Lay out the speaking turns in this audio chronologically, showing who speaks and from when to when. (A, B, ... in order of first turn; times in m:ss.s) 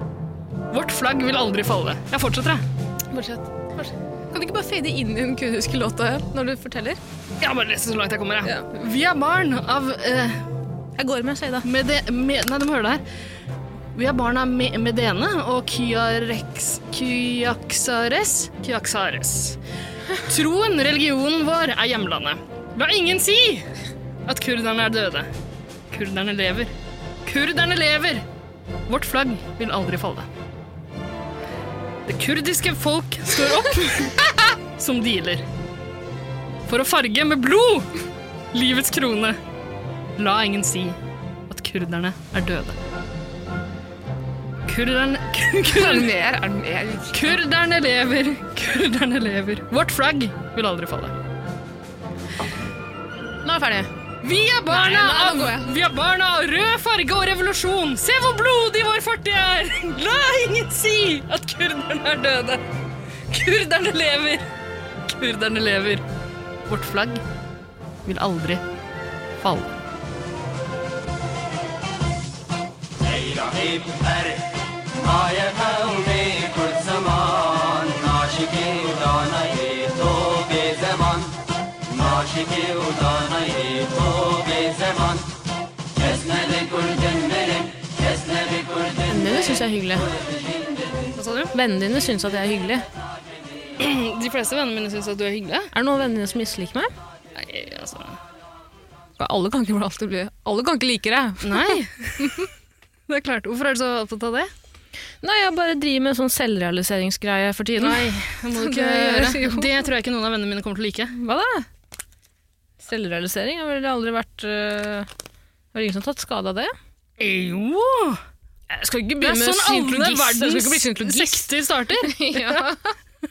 0:00.7-0:02.6 A
0:03.1-0:07.0 B
0:07.4-0:10.4 A
0:11.0-0:11.7 B
0:11.6-0:13.0 A
0:14.0-0:19.6 A
0:20.3-0:23.7 A
0:24.3-0:25.3 A
0:25.9-0:26.7 A
0:27.3-0:28.2 A
0:28.9-0:30.3 A
0:32.1-0:35.4 A
0:36.7-0:37.9 A
0:38.5-0:39.4 A
0:40.2-0:41.0 A
0:41.5-0:42.8 A
0:44.7-0:46.1 A
0:45.7-0:47.4 B
0:47.1-0:51.2 A
0:53.4-0:53.9 B
0:54.2-1:02.6 A
0:54.7-0:55.7 B
1:03.3-1:04.4 A
1:05.1-1:06.0 A
1:06.7-1:07.2 A
1:08.0-1:08.6 A
1:09.4-1:09.7 A
1:13.0-1:25.4 C
1:26.0-1:29.1 C
1:29.1-1:30.1 B
1:31.2-1:31.5 A
1:31.5-1:32.8 B
1:33.8-1:35.7 A
1:35.7-1:36.9 B
1:37.4-1:38.2 A
1:39.2-1:42.5 B
1:41.4-1:42.4 A
1:43.1-1:44.5 A
1:45.2-1:49.7 B
1:47.8-1:51.2 A
1:51.1-1:51.7 B
1:52.8-1:55.1 B
1:55.7-1:56.7 B
1:57.2-1:58.2 A
1:58.7-2:03.0 B
1:59.2-2:02.6 A